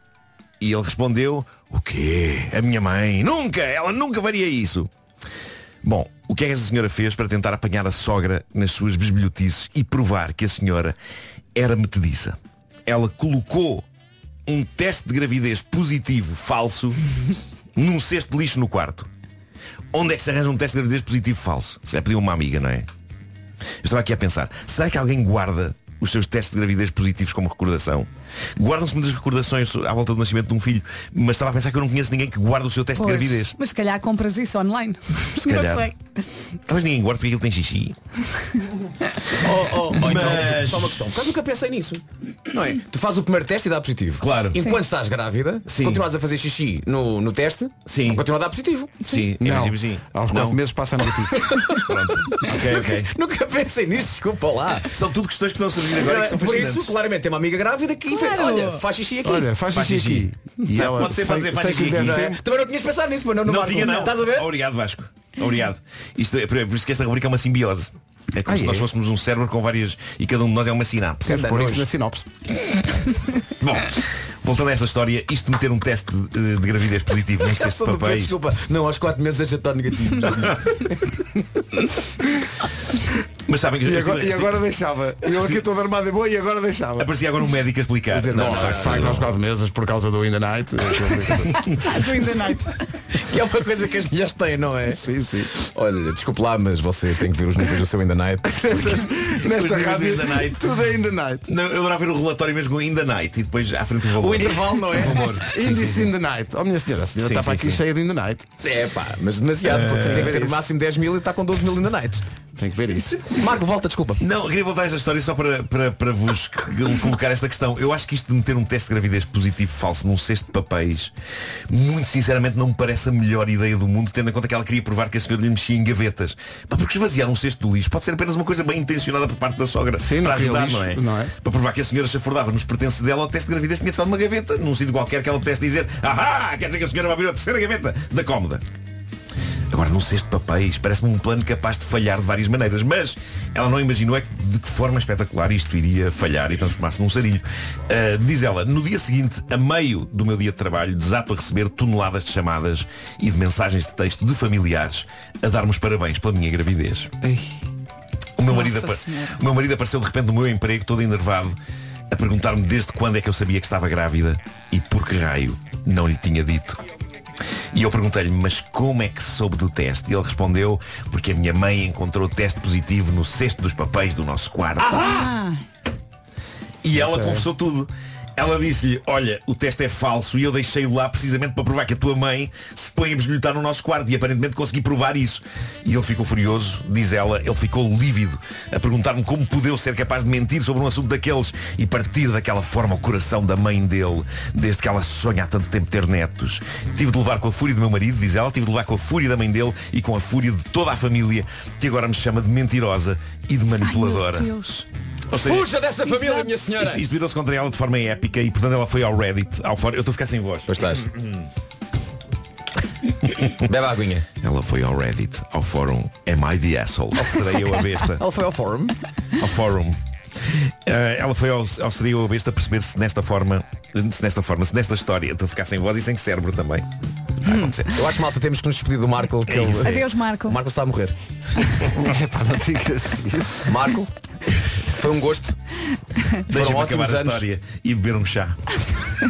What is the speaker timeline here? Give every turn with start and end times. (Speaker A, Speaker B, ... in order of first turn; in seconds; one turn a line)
Speaker A: 0.6-4.9
Speaker A: 5.8-10.9
Speaker A: 11.5-13.8
Speaker A: 14.4-17.0
Speaker A: 17.8-19.1
Speaker A: 19.9-22.9
Speaker A: 23.8-33.5
Speaker B: 33.0-35.9
Speaker A: 35.3-35.9
Speaker A: 36.6-38.0
Speaker C: 39.4-49.1
Speaker A: 39.9-41.0
Speaker A: 44.2-44.6
Speaker A: 45.7-46.0
Speaker A: 47.9-48.2
Speaker A: 49.0-50.6
Speaker D: 49.4-51.4
Speaker C: 51.4-54.9
Speaker A: 51.7-53.1
Speaker A: 54.9-56.9
Speaker C: 55.9-60.2
Speaker B: 58.1-58.8
Speaker D: 59.2-62.4
Speaker A: 60.7-62.3
Speaker C: 61.6-64.5
Speaker A: 63.4-71.3
Speaker D: 68.5-68.9
Speaker D: 71.2-72.3
Speaker C: 71.2-71.8
Speaker A: 73.6-78.3
Speaker C: 77.4-81.0
Speaker A: 83.5-84.6
Speaker D: 83.8-87.1
Speaker A: 85.3-85.6
Speaker A: 87.0-89.3
Speaker D: 88.1-91.7
Speaker C: 88.3-89.2
Speaker B: 91.7-92.7
Speaker C: 93.1-95.0
Speaker D: 94.9-95.5
Speaker C: 95.6-99.0
Speaker D: 98.5-101.5
Speaker A: 99.4-100.7
Speaker A: 101.5-105.9
Speaker C: 104.2-105.8
Speaker D: 105.5-108.5
Speaker A: 107.2-107.8
Speaker C: 108.6-112.2
Speaker A: 109.6-110.5
Speaker D: 110.0-110.6
Speaker D: 112.6-113.3
Speaker C: 113.3-114.2
Speaker A: 114.2-121.1
Speaker A: 121.7-138.6
Speaker D: 130.0-131.3
Speaker A: 139.7-157.1
Speaker D: 157.2-157.6
Speaker A: 158.4-161.6
Speaker B: 158.5-159.4
Speaker A: 162.1-166.8
Speaker A: 167.7-175.3
Speaker B: 174.8-175.6
Speaker A: 176.8-204.5
Speaker D: 176.9-177.4
Speaker B: 203.8-204.8
Speaker A: 205.3-205.7
Speaker C: 205.3-207.1
Speaker B: 206.0-206.7
Speaker A: 206.7-211.4
Speaker C: 210.7-211.1
Speaker C: 213.6-214.3
Speaker A: 214.4-218.2
Speaker C: 218.1-218.9
Speaker A: 219.4-220.0
Speaker A: 220.8-226.9
Speaker A: 227.4-227.9
Speaker C: 227.9-231.1
Speaker A: 229.5-230.0
Speaker B: 229.8-230.6
Speaker D: 231.9-233.8
Speaker C: 233.7-234.1
Speaker C: 234.9-235.6
Speaker A: 236.5-238.6
Speaker C: 236.5-237.4